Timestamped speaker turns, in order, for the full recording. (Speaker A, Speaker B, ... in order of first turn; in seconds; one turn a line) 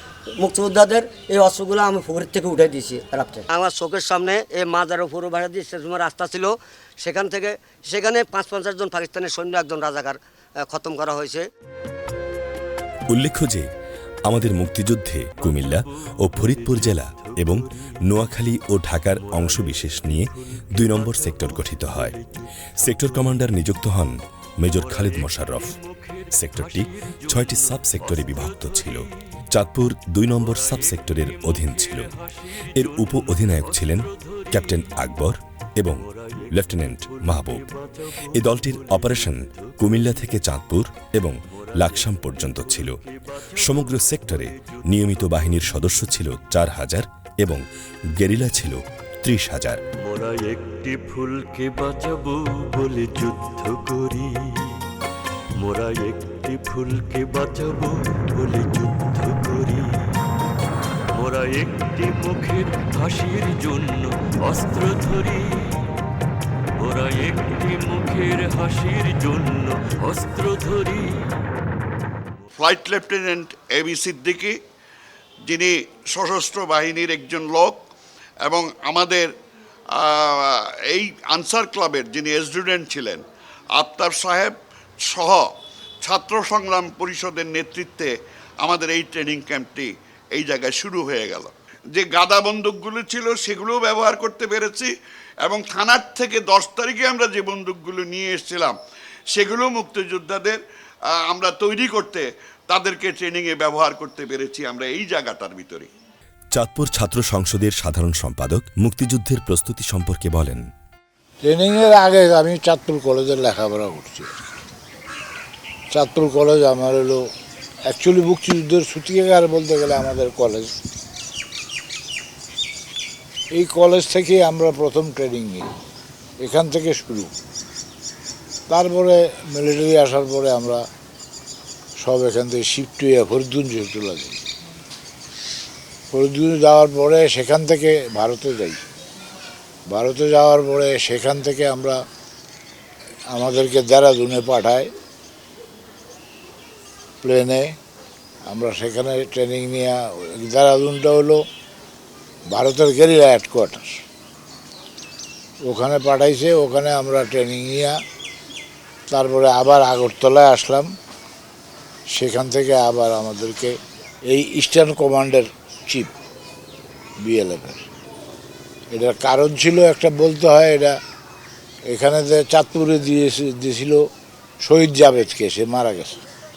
Speaker A: 0.4-11.4
Speaker B: 13.1-13.7
Speaker B: 14.2-22.1
Speaker C: 15.4-23.4
Speaker B: 22.8-25.8
Speaker C: 24.7-29.1
Speaker B: 26.3-32.1
Speaker C: 30.2-35.3
Speaker B: 32.7-37.6
Speaker C: 35.8-40.4
Speaker B: 38.3-43.0
Speaker C: 41.5-45.7
Speaker B: 43.6-47.6
Speaker B: 48.2-49.8
Speaker C: 50.0-54.8
Speaker C: 55.6-59.9
Speaker C: 61.2-65.8
Speaker C: 66.8-71.2
Speaker D: 72.6-74.6
Speaker D: 75.5-77.8
Speaker D: 78.4-79.3
Speaker D: 79.9-83.2
Speaker D: 83.7-94.9
Speaker D: 95.4-98.8
Speaker D: 99.3-100.6
Speaker D: 101.1-105.9
Speaker B: 106.5-110.6
Speaker E: 111.4-114.3
Speaker E: 115.9-117.2
Speaker E: 117.9-120.7
Speaker E: 123.5-125.7
Speaker E: 126.4-127.3
Speaker E: 128.7-130.8
Speaker E: 132.0-134.4
Speaker E: 136.1-138.8
Speaker E: 139.9-142.0
Speaker E: 143.3-144.9
Speaker E: 147.2-147.8
Speaker E: 148.5-151.4
Speaker E: 152.5-154.0
Speaker E: 155.6-158.0
Speaker E: 159.1-160.9
Speaker E: 162.1-166.1
Speaker E: 167.2-167.9
Speaker E: 168.9-171.0
Speaker E: 171.9-174.1
Speaker E: 174.6-176.2